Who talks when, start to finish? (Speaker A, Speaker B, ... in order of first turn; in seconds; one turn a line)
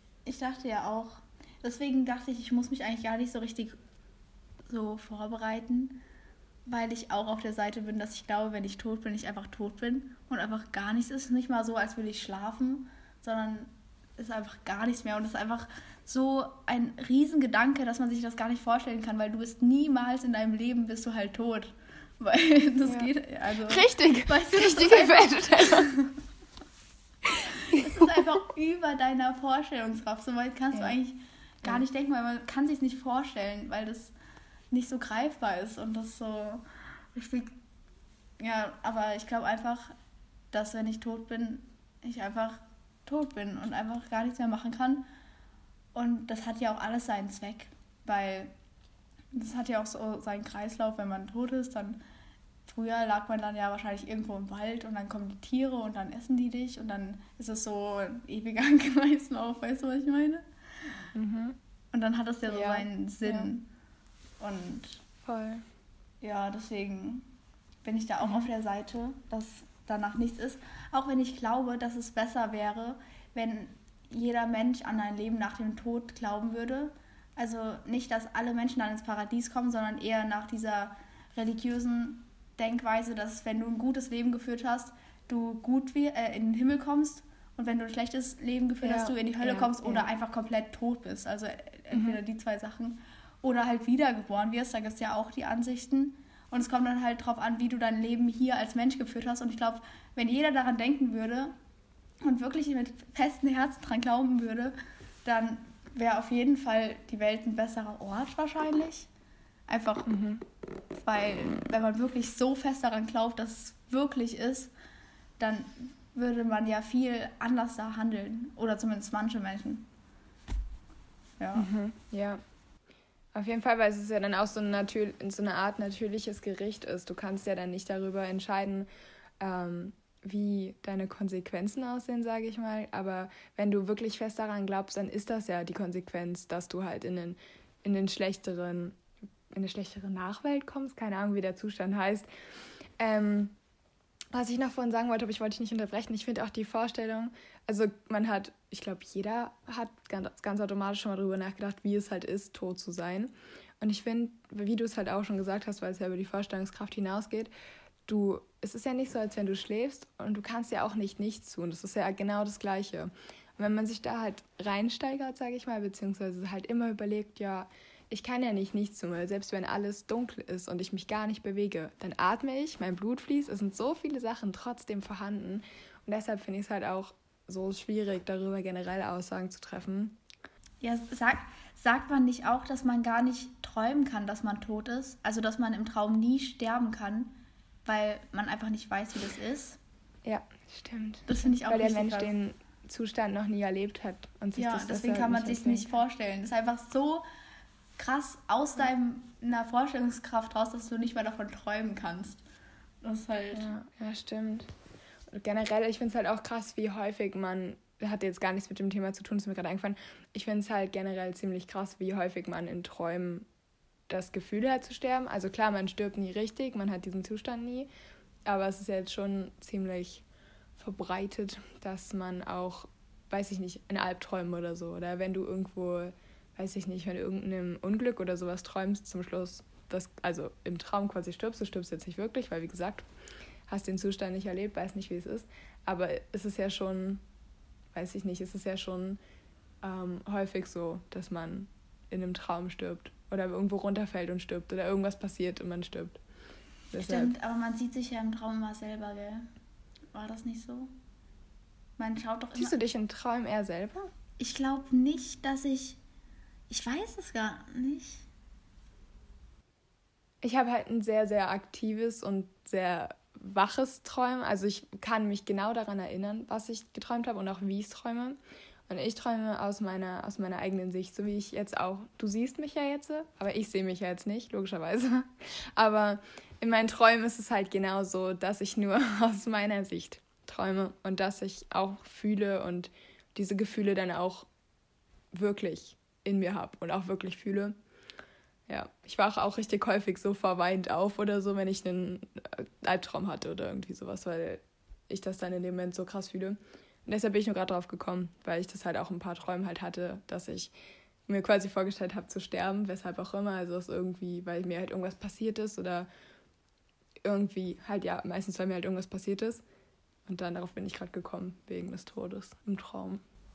Speaker A: 0.2-3.8
Speaker A: 4.7-6.0
Speaker A: 6.7-26.1
Speaker B: 22.8-23.1
Speaker B: 23.7-25.9
Speaker B: 27.2-28.2
Speaker A: 27.5-34.1
Speaker A: 34.7-36.6
Speaker A: 37.1-37.5
Speaker A: 38.4-39.9
Speaker A: 40.5-45.1
Speaker A: 45.9-48.5
Speaker A: 49.3-52.0
Speaker A: 52.7-60.4
Speaker B: 61.1-61.6
Speaker A: 61.9-63.7
Speaker B: 62.5-63.5
Speaker A: 64.4-65.0
Speaker B: 65.2-65.6
Speaker A: 66.2-67.3
Speaker A: 67.8-101.5
Speaker B: 68.2-68.5
Speaker B: 88.8-90.1
Speaker B: 91.9-92.2
Speaker A: 102.2-104.7
Speaker A: 105.2-109.1
Speaker A: 109.7-110.1
Speaker B: 110.0-110.4
Speaker A: 111.0-114.7
Speaker A: 115.4-119.9
Speaker A: 121.4-121.7
Speaker B: 121.5-122.4
Speaker B: 123.3-128.9
Speaker B: 129.4-139.0
Speaker B: 139.5-142.3
Speaker B: 143.0-143.6
Speaker B: 144.3-157.5
Speaker B: 158.1-180.2
Speaker A: 180.8-187.3
Speaker A: 187.8-189.8
Speaker B: 190.2-195.9
Speaker A: 191.3-192.3
Speaker A: 194.6-197.2
Speaker A: 198.0-202.4
Speaker A: 203.0-203.7
Speaker B: 203.5-204.7
Speaker B: 205.3-213.5
Speaker B: 214.1-217.9
Speaker B: 218.5-220.2
Speaker B: 220.8-233.1
Speaker B: 233.7-237.2
Speaker B: 237.9-239.2
Speaker B: 239.8-246.2
Speaker B: 246.9-247.3
Speaker A: 247.0-249.4
Speaker A: 250.1-250.9
Speaker A: 252.0-252.8
Speaker B: 252.5-254.1
Speaker A: 254.4-256.0
Speaker A: 256.7-258.2
Speaker B: 260.4-284.5
Speaker B: 285.3-287.7
Speaker B: 288.7-300.7
Speaker B: 301.3-306.1
Speaker B: 307.2-309.6
Speaker B: 310.3-313.2